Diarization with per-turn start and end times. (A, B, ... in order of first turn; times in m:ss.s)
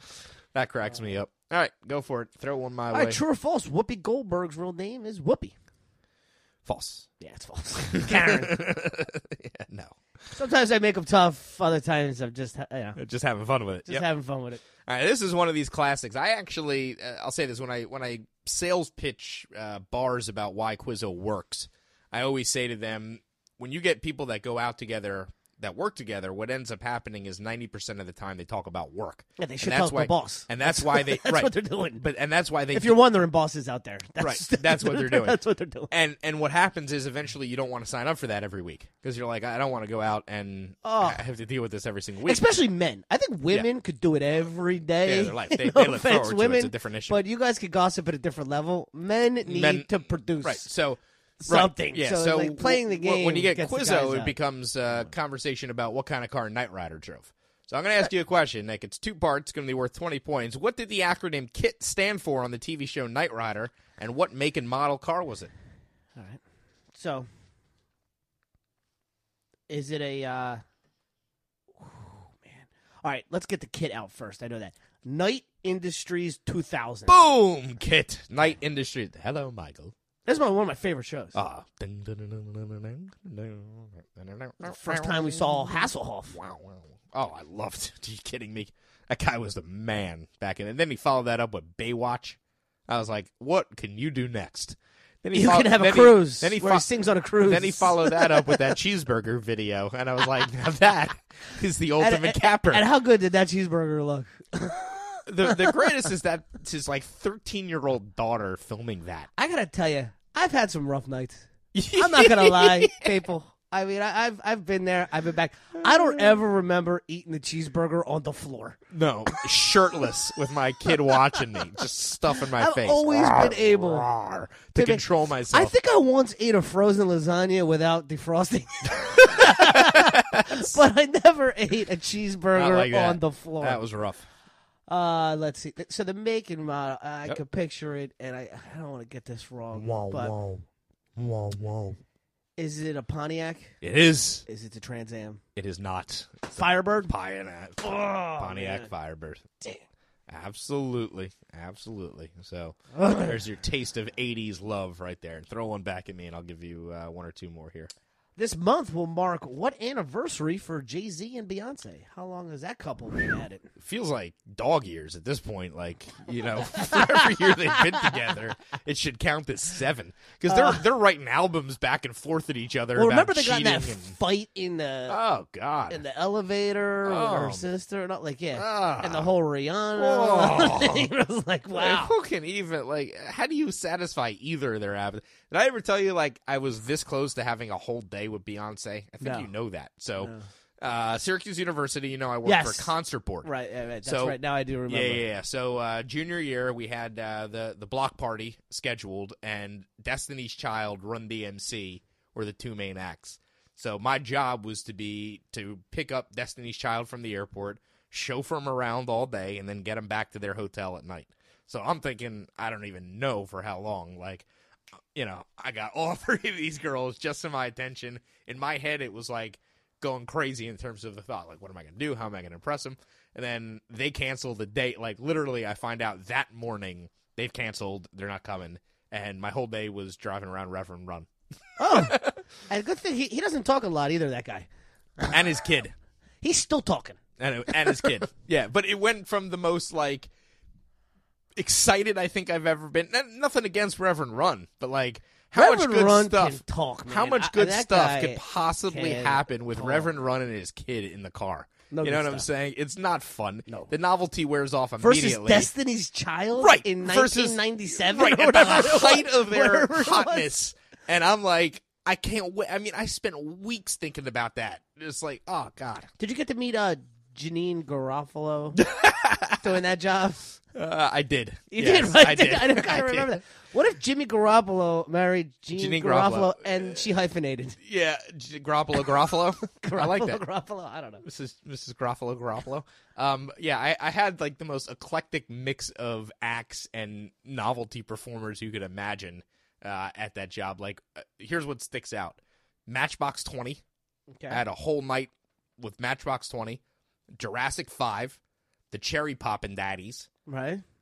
0:00.5-0:03.2 A
0:02.9-0:05.6 B
0:06.6-0:07.1 A
0:07.2-0:08.6 B
0:08.0-0:10.0 A
0:10.3-0:13.0 B
0:13.0-0:14.1 A
0:13.9-0:14.6 B
0:14.8-0:33.0 A
0:29.4-0:32.0 B
0:32.7-0:35.9 B
0:34.2-0:35.4 A
0:35.9-0:42.4 A
0:40.8-0:41.2 B
0:42.2-0:50.7 B
0:45.0-0:47.2 A
0:49.4-1:05.5 A
0:51.4-0:54.4 B
1:06.2-1:06.4 B
1:06.9-1:07.3 B
1:09.7-1:10.6 B
1:11.8-1:17.2 B
1:17.1-1:19.9 A
1:20.3-1:21.4 B
1:21.3-1:36.9 A
1:24.6-1:26.4 B
1:35.3-1:38.6 B
1:37.4-1:42.8 A
1:42.0-1:45.8 B
1:45.3-1:49.3 A
1:49.4-1:58.8 B
1:51.7-1:53.1 A
1:58.9-2:05.7 A
2:02.6-2:04.1 B
2:04.8-2:13.8 B
2:09.0-2:10.7 A
2:12.5-2:14.3 A
2:14.9-2:20.4 B
2:19.7-2:20.6 A
2:21.2-2:22.0 A
2:22.6-2:23.8 B
2:23.8-2:24.4 A
2:24.5-2:25.4 B
2:25.6-2:29.6 A
2:26.5-2:27.1 B
2:27.8-2:28.9 B
2:30.3-2:37.9 A
2:32.9-2:33.3 B
2:38.4-2:43.7 B
2:43.8-2:54.2 A
2:46.7-2:47.8 B
2:50.5-2:50.8 B
2:53.0-2:55.2 B
2:55.1-2:56.0 A
2:55.9-3:02.1 B
2:57.0-2:57.7 A
2:58.5-2:59.3 A
3:00.0-3:01.1 A
3:01.7-3:13.5 A
3:09.2-3:09.5 B
3:10.2-3:10.5 B
3:12.4-3:15.2 B
3:14.0-3:34.5 A
3:35.1-3:51.3 A
3:51.8-3:54.7 B
3:51.8-3:52.4 A
3:55.3-3:55.9 A
3:56.4-3:57.2 B
3:57.4-4:00.3 A
3:57.8-3:58.1 B
4:01.6-4:15.7 A
4:05.6-4:10.1 B
4:11.9-4:12.5 B
4:15.0-4:20.5 B
4:16.6-4:26.1 A
4:26.2-4:28.8 B
4:28.8-4:29.7 A
4:29.6-4:30.5 B
4:30.7-4:33.4 A
4:31.7-4:37.8 B
4:35.7-4:37.0 A
4:37.8-4:40.4 A
4:39.8-4:41.2 B
4:41.2-4:53.8 A
4:54.3-4:54.6 B
4:54.5-4:56.8 A
4:57.4-4:58.4 A
4:58.9-5:00.3 A
5:00.5-5:00.8 B